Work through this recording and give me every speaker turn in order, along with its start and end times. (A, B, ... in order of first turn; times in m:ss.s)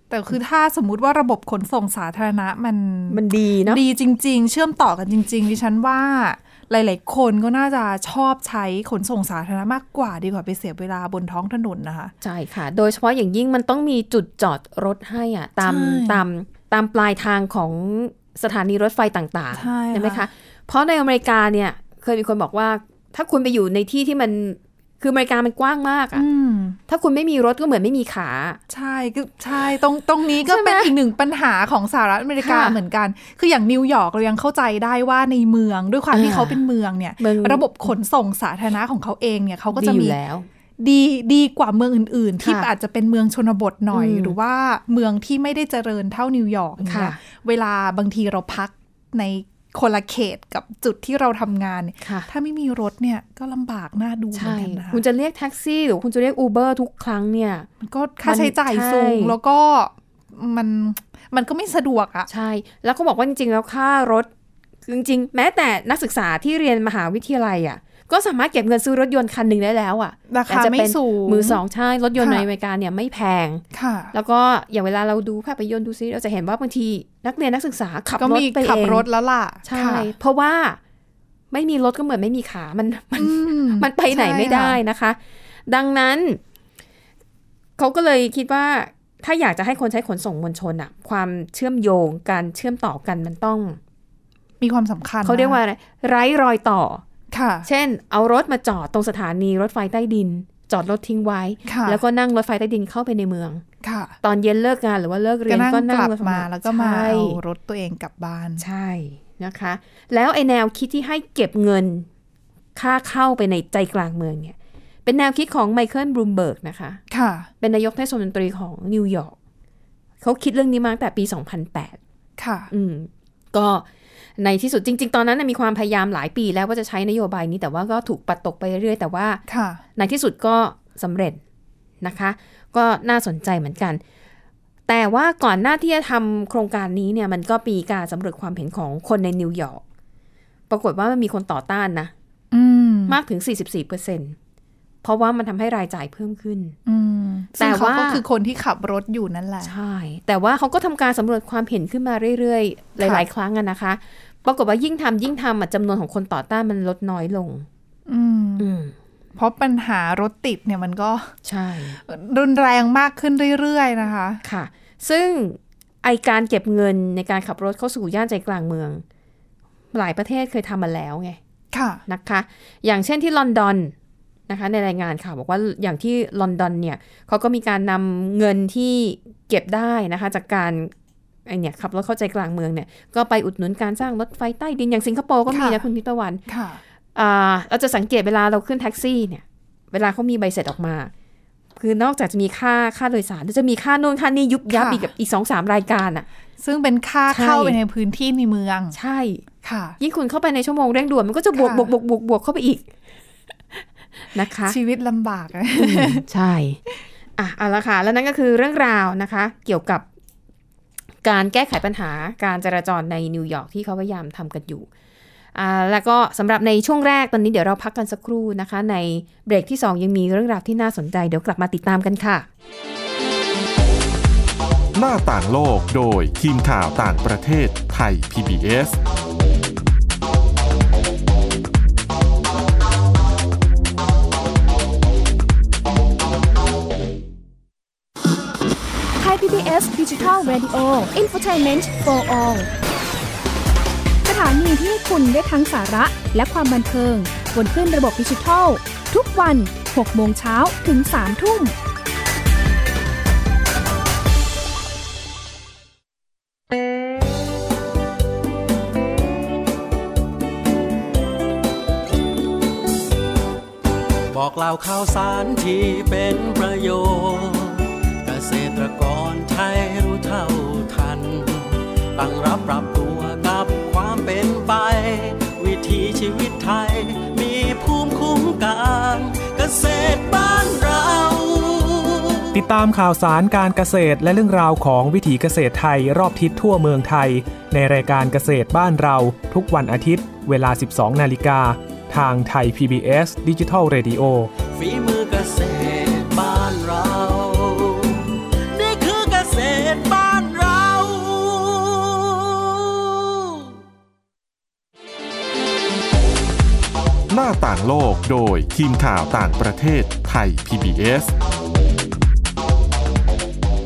0:00.1-0:12.1 A
0:03.1-0:03.8 B
0:12.2-0:26.2 B
0:15.6-0:16.2 A
0:19.5-0:20.3 A
0:26.1-0:26.8 A
0:26.9-0:28.6 B
0:28.7-0:40.2 A
0:30.4-0:30.9 B
0:32.4-0:32.8 B
0:36.1-0:36.6 B
0:37.2-0:37.7 B
0:39.7-0:40.5 B
0:40.8-0:55.0 A
0:42.4-0:42.7 B
0:43.9-0:44.4 B
0:46.8-0:47.2 B
0:52.0-0:52.3 B
0:54.3-0:57.7 B
0:57.8-1:02.3 A
0:58.2-0:59.4 B
1:02.3-1:04.3 B
1:04.8-1:19.0 B
1:10.3-1:11.6 A
1:12.2-1:12.4 A
1:13.7-1:14.1 A
1:18.2-1:20.1 A
1:19.6-1:20.8 B
1:21.5-1:26.4 B
1:23.2-1:24.8 A
1:27.8-1:33.8 B
1:34.6-1:35.6 A
1:35.2-1:37.0 B
1:37.3-1:37.7 A
1:37.6-1:43.6 B
1:41.6-1:42.0 A
1:43.8-1:44.1 A
1:44.2-1:47.4 B
1:45.5-1:48.6 A
1:48.6-1:52.1 B
1:52.7-1:57.0 B
1:57.1-1:57.5 A
1:57.6-1:59.3 B
2:00.2-2:02.0 B
2:02.4-2:02.7 A
2:02.7-2:03.8 B
2:04.4-2:09.4 B
2:09.5-2:09.8 A
2:10.0-2:11.4 B
2:12.0-2:14.0 B
2:14.9-2:19.8 B
2:20.7-2:22.1 B
2:22.5-2:23.2 A
2:23.1-2:24.4 B
2:25.0-2:26.8 B
2:26.9-2:29.7 A
2:27.6-2:28.2 B
2:29.6-2:37.6 B
2:33.0-2:33.2 A
2:38.1-2:38.7 A
2:38.6-2:38.9 B
2:39.4-2:41.3 A
2:41.4-2:42.0 B
2:42.1-2:44.4 A
2:44.4-2:49.0 B
2:49.9-2:51.4 B
2:51.7-2:52.0 A
2:52.1-2:53.9 B
2:54.5-3:00.9 B
3:01.4-3:06.4 B
3:05.5-3:05.8 A
3:06.5-3:06.8 A
3:07.1-3:11.1 B
3:11.8-3:16.3 B
3:14.7-3:15.1 A
3:16.6-3:19.0 A
3:17.3-3:17.8 B
3:18.9-3:19.4 B
3:19.6-3:20.0 A
3:20.0-3:22.9 B
3:21.5-3:21.9 A
3:24.3-3:24.8 B
3:24.6-3:26.2 A
3:25.8-3:26.8 B
3:27.4-3:30.0 B
3:31.2-3:34.9 B
3:35.5-3:42.5 B
3:44.9-3:49.0 C
3:59.2-4:02.7 D
4:04.2-4:11.7 D
4:24.3-4:42.5 E
4:42.5-4:54.5 F
4:54.6-5:03.5 E
5:07.3-5:11.3 C